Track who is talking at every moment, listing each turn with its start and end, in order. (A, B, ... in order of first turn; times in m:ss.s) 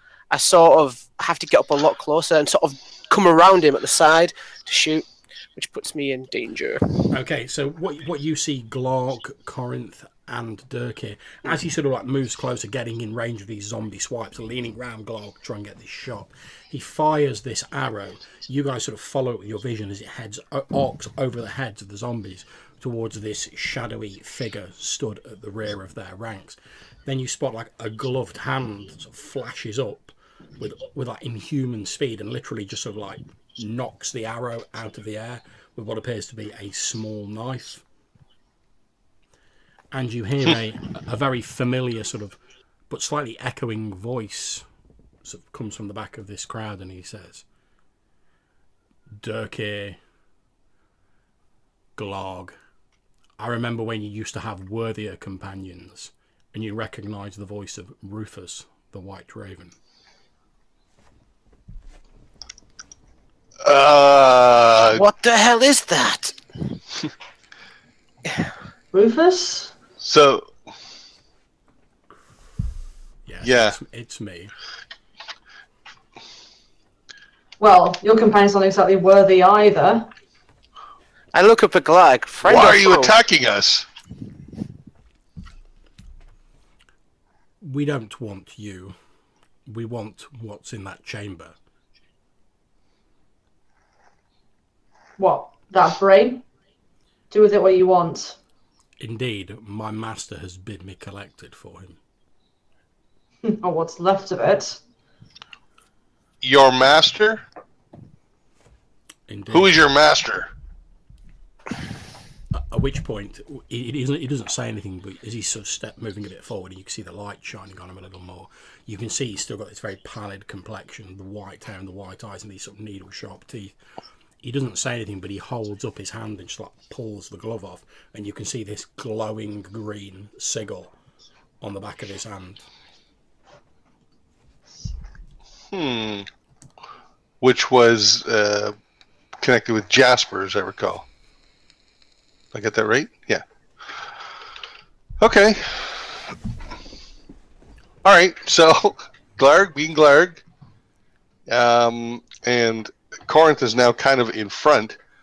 0:00.3-0:07.1 A
0:07.1-0:37.8 B
0:39.9-0:42.4 B
0:42.9-0:44.6 B
0:45.2-0:47.4 B
0:49.2-0:50.0 B
0:52.0-0:52.5 B
0:53.4-0:59.7 B
1:03.6-1:05.0 C
1:04.9-1:06.4 A
1:08.9-1:09.7 D
1:10.0-1:10.5 C
1:13.2-1:14.5 B
1:13.4-1:13.8 C
1:17.6-1:20.1 D
1:21.3-1:23.2 A
1:22.4-1:23.9 C
1:27.6-1:29.0 B
1:29.7-1:31.6 B
1:35.2-1:36.4 D
1:37.3-1:38.4 D
1:39.0-1:42.0 B
1:43.4-1:44.8 D
1:46.4-1:47.4 C
1:49.3-1:49.8 B
1:49.5-1:50.5 C
1:52.5-2:03.7 B
2:04.4-2:10.9 B
2:11.6-2:12.6 B
2:15.7-2:16.3 C
2:17.4-2:18.7 C
2:19.4-2:21.0 C
2:22.5-2:23.4 C
2:25.2-2:26.3 C
2:28.0-2:30.4 C
2:31.5-2:35.0 C